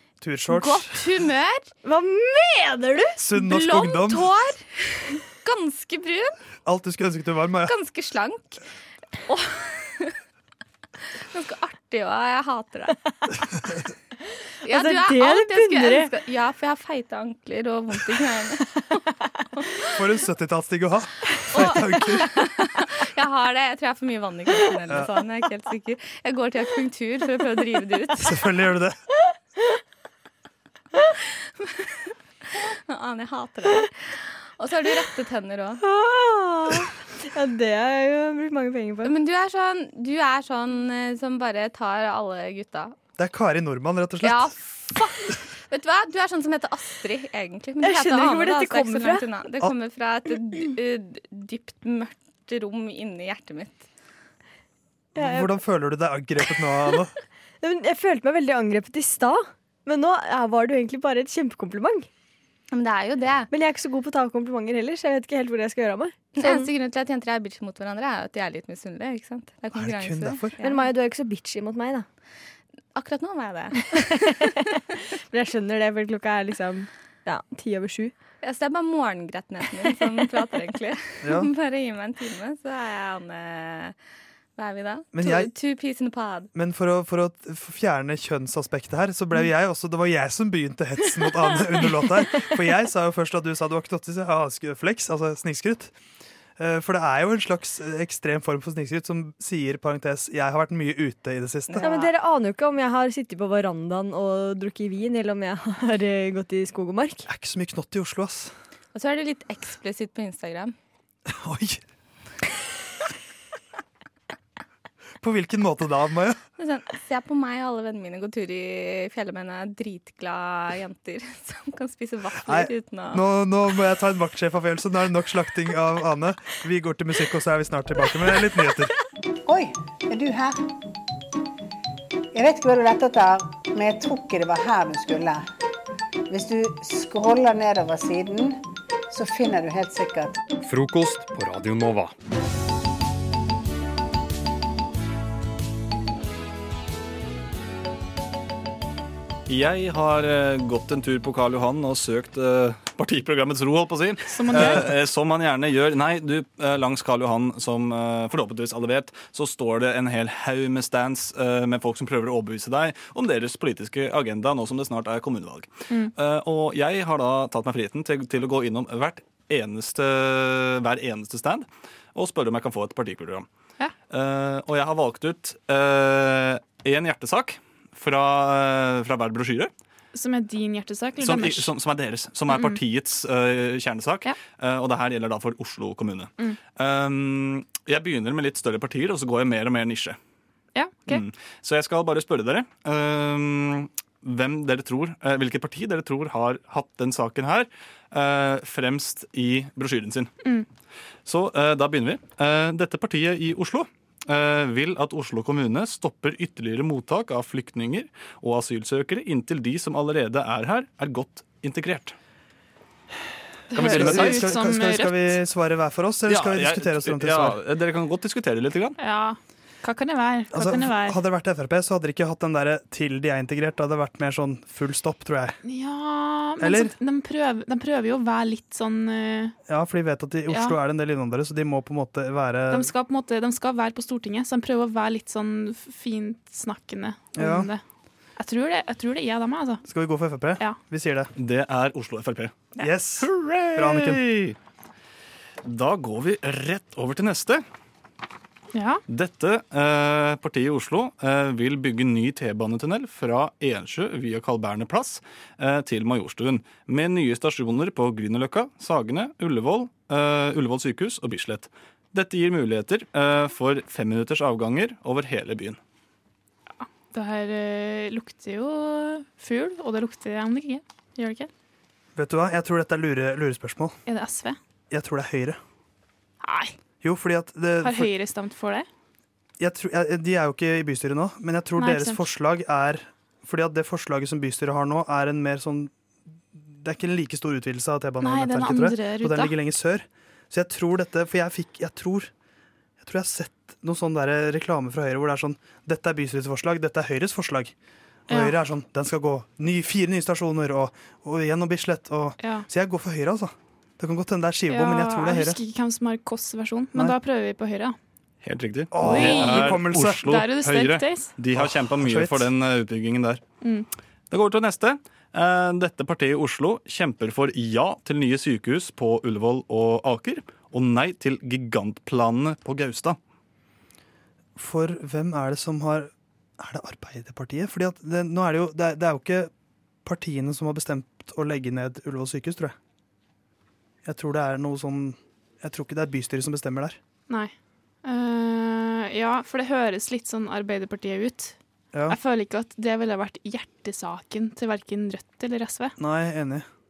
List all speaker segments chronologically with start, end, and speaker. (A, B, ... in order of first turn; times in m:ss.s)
0:00.2-0:01.0 A
0:00.5-0:01.7 B
0:01.8-0:03.2 C
0:03.2-0:04.3 A
0:03.4-0:06.3 B
0:06.6-0:07.7 A
0:07.6-0:08.6 B
0:09.2-0:10.2 B
0:11.3-0:13.0 B
0:14.6-0:18.6 B
0:14.7-0:16.1 C
0:19.6-0:19.9 B
0:20.0-0:22.4 A
0:21.5-0:28.3 B
0:28.2-0:29.0 A
0:31.4-0:31.9 B
0:32.6-0:35.8 B
0:35.8-0:39.1 C
0:39.0-0:43.0 B
0:43.2-0:44.5 A
0:44.2-0:53.8 B
0:47.8-0:49.3 C
0:55.2-0:55.5 C
0:55.2-0:57.1 A
0:57.6-1:02.1 C
1:02.7-1:03.5 B
1:03.5-1:06.7 C
1:06.4-1:10.8 B
1:09.8-1:10.5 A
1:10.6-1:12.1 C
1:12.9-1:14.5 B
1:14.0-1:14.7 C
1:15.3-1:18.1 C
1:18.4-1:23.9 B
1:21.2-1:21.5 A
1:24.6-1:26.5 B
1:25.1-1:25.5 A
1:26.5-1:35.9 A
1:36.6-1:41.9 A
1:41.7-1:42.1 B
1:41.8-1:47.2 C
1:47.3-1:48.5 A
1:48.9-1:50.7 B
1:51.3-1:51.8 A
1:55.2-1:56.4 A
1:56.6-2:03.2 B
2:02.5-2:08.9 A
2:09.4-2:10.6 D
2:12.3-2:15.4 D
2:16.3-2:20.4 D
2:29.5-2:53.5 E
2:34.3-2:34.9 F
2:54.1-2:59.7 E
3:00.1-3:01.7 F
3:01.2-3:10.2 E
3:02.5-3:02.8 F
3:10.7-3:11.2 F
3:11.1-3:20.3 E
3:21.2-3:32.1 E
3:33.7-3:37.6 A
3:33.7-3:35.4 F
3:33.7-3:34.5 E
3:36.3-3:39.0 E
3:39.0-3:41.2 F
3:40.5-3:45.6 A
3:45.6-3:49.5 F
3:46.6-3:46.9 A
3:49.7-3:52.9 A
3:50.5-3:50.8 F
3:52.7-3:57.8 F
3:57.4-3:57.7 A
3:58.4-3:59.8 F
3:59.8-4:01.3 A
4:01.4-4:02.6 E
4:02.8-4:04.2 A
4:03.2-4:04.5 E
4:05.6-4:07.6 E
4:08.7-4:09.0 F
4:09.1-4:25.8 E
4:27.0-4:31.5 F
4:32.2-4:34.0 A
4:34.1-4:34.6 F
4:34.9-4:35.6 A
4:36.4-4:36.8 F
4:37.0-4:38.1 A
4:37.8-4:38.9 F
4:39.6-4:45.9 A
4:41.8-4:42.2 F
4:46.5-4:52.3 A
4:48.2-4:49.5 F
4:53.0-4:57.7 A
4:58.3-5:05.6 A
4:58.3-4:58.6 F
5:02.4-5:02.7 F
5:04.7-5:08.0 F
5:08.4-5:13.4 E
5:08.9-5:10.2 A
5:09.0-5:11.3 F
5:11.5-5:12.5 A
5:13.6-5:13.9 F
5:14.3-5:23.2 E
5:24.6-5:29.5 A
5:30.0-5:32.7 A
5:34.0-5:37.0 A
5:38.0-5:41.6 F
5:42.1-5:46.0 F
5:46.0-5:46.6 A